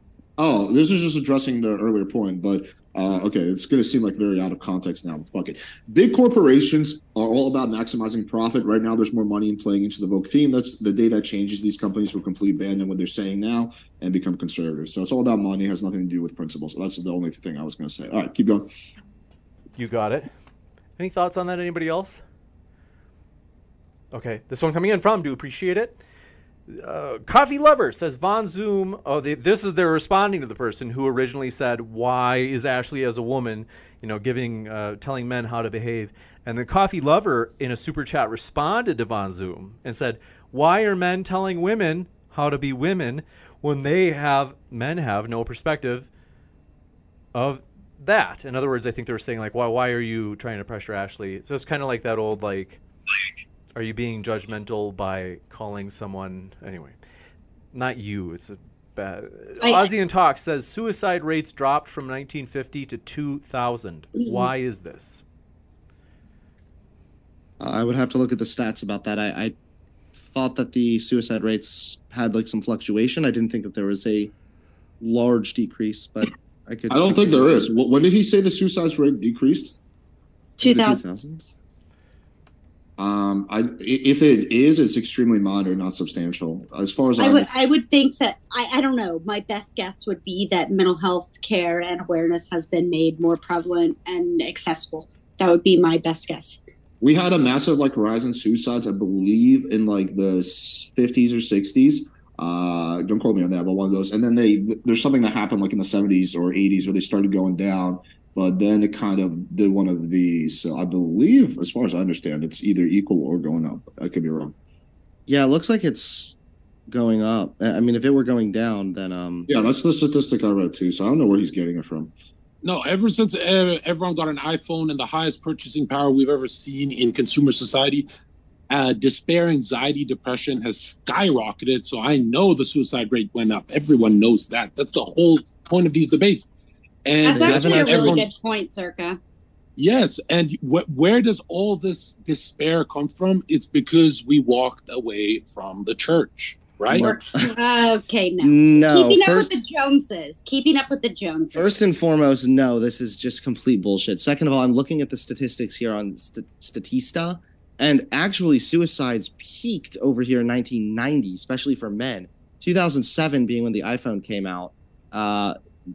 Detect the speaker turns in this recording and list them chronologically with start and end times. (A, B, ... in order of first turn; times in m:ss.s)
0:00.4-0:18.7 A
0:19.8-0:20.3 B
0:21.0-0:22.2 B
0:24.1-0:26.0 B
0:26.7-0:46.1 B
0:47.3-0:52.8 B
0:53.8-0:57.0 B
0:57.7-1:05.2 B
0:59.6-0:59.9 C
1:04.2-1:04.5 C
1:07.6-1:09.5 D
1:10.2-1:14.3 D
1:15.0-1:17.5 D
1:16.9-1:19.8 A
1:20.6-1:21.0 C
1:20.6-1:21.4 D
1:23.0-1:27.5 A
1:27.2-1:36.6 C
1:37.0-1:54.6 A
1:55.3-1:56.4 D
1:56.9-1:59.5 D
1:59.5-2:02.1 A
2:02.6-2:08.1 E
2:08.7-2:16.5 E
2:17.0-2:18.3 E
2:17.2-2:18.2 D
2:17.2-2:19.2 C
2:19.8-2:27.2 E
2:26.9-2:27.6 D
2:26.9-2:31.8 C
2:28.4-2:29.5 D
2:31.5-2:45.6 D